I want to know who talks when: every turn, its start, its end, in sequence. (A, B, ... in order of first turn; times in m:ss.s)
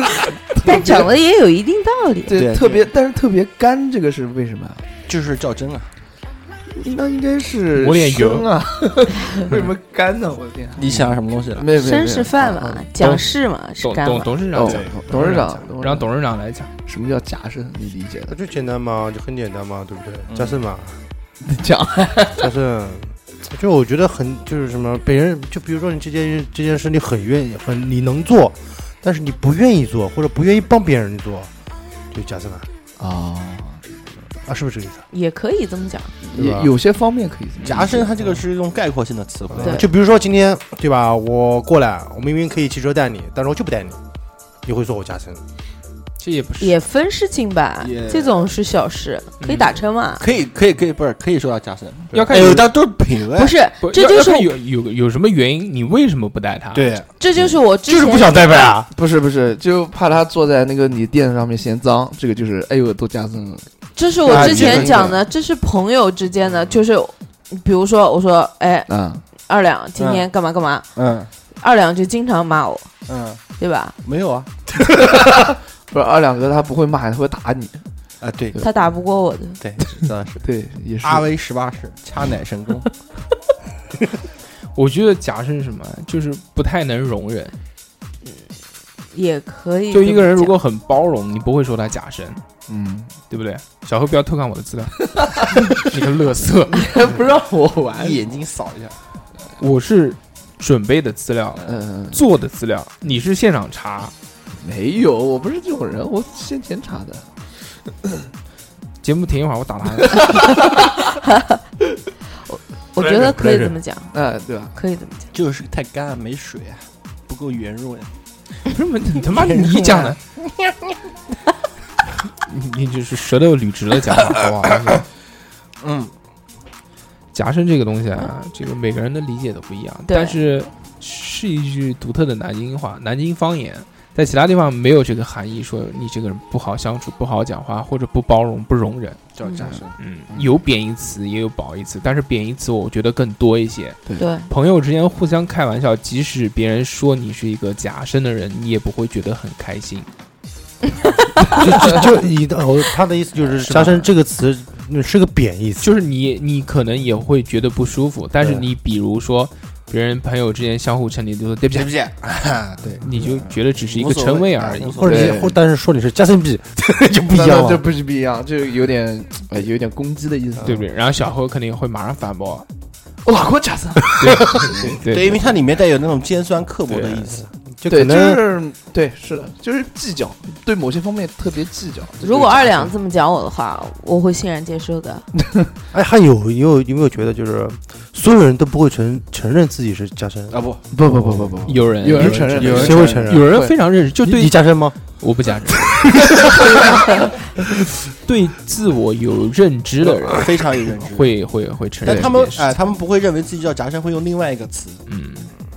0:00.6-0:01.1 A
0:00.6-0:02.4 B
0:02.3-0:04.9 A
0:02.3-0:02.9 C
0:05.1-0:05.9 C
0:06.7-0:12.9 A
0:07.8-0:08.5 D
0:10.8-0:11.7 C
0:11.7-0:14.5 B
0:13.8-0:16.7 D
0:14.5-0:16.1 A
0:14.6-0:15.4 C
0:16.9-0:18.4 A
0:18.3-0:21.0 E
0:20.3-0:20.6 C
0:21.4-0:22.5 A
0:22.3-0:31.5 E
0:32.1-0:32.7 E
0:33.0-0:33.8 A
0:34.4-0:35.0 E
0:35.1-0:36.2 B
0:36.2-0:38.3 A
0:36.3-0:36.7 E
0:37.6-0:39.8 C
0:39.5-0:44.0 E
0:39.6-0:39.9 B
0:44.6-0:45.4 E
0:46.2-0:46.8 D
0:46.6-0:50.2 B
0:47.8-0:48.5 C
0:49.4-0:49.7 D
0:50.2-0:53.6 C
0:52.1-0:52.7 D
0:53.4-0:54.5 B
0:53.8-0:56.9 D
0:56.7-0:57.1 C
0:57.2-0:58.6 B
0:57.9-0:58.9 E
0:58.9-1:03.7 A
1:04.0-1:08.9 B
1:04.3-1:05.2 A
1:04.3-1:05.2 C
1:08.9-1:09.2 A
1:09.4-1:10.9 B
1:10.0-1:10.3 C
1:11.0-1:11.3 C
1:11.6-1:12.9 B
1:13.1-1:13.4 C
1:13.6-1:14.0 B
1:14.0-1:14.5 C
1:14.9-1:17.8 A
1:18.2-1:18.6 C
1:18.6-1:19.6 B
1:19.6-1:20.4 C
1:20.4-1:21.3 A
1:21.0-1:22.9 C
1:24.8-1:27.6 D
1:29.1-1:30.6 B
1:29.9-1:32.4 D
1:32.7-1:33.1 A
1:33.3-1:36.9 D
1:35.2-1:35.8 A
1:36.7-1:38.2 A
1:38.0-1:39.0 C
1:39.6-1:44.1 D
1:41.6-1:42.2 A
1:44.6-1:47.3 A
1:49.0-1:50.4 D
1:50.4-1:50.9 A
1:51.2-1:51.6 B
1:52.5-1:54.2 B
1:53.0-1:53.8 E
1:54.1-1:54.8 A
1:54.7-1:55.3 B
1:55.3-1:58.1 C
1:58.7-2:00.2 D
1:59.3-2:00.8 C
2:02.4-2:05.0 D
2:05.8-2:06.1 C
2:07.3-2:19.2 D
2:10.1-2:10.4 B
2:19.4-2:20.0 C
2:20.0-2:30.1 D
2:24.2-2:24.5 B
2:31.5-2:35.9 E
2:35.8-2:41.9 D
2:41.8-2:43.0 C
2:43.0-2:45.0 D
2:43.8-2:45.3 C
2:45.0-2:47.8 E
2:45.0-2:45.6 A
2:47.3-2:50.8 A
2:50.6-2:52.7 D
2:53.2-2:55.0 A
2:54.2-2:55.5 D
2:55.0-2:57.5 C
2:56.9-2:57.2 D
2:57.6-2:58.4 E
2:57.9-3:02.9 A
3:02.2-3:05.3 B
3:05.9-3:13.5 E
3:10.5-3:10.8 C
3:10.9-3:13.7 A
3:11.7-3:16.0 D
3:14.2-3:15.0 E
3:16.2-3:16.9 E
3:18.2-3:20.5 D
3:20.0-3:21.3 C
3:21.1-3:22.7 D
3:22.0-3:25.0 C
3:22.1-3:22.3 A
3:25.1-3:25.5 D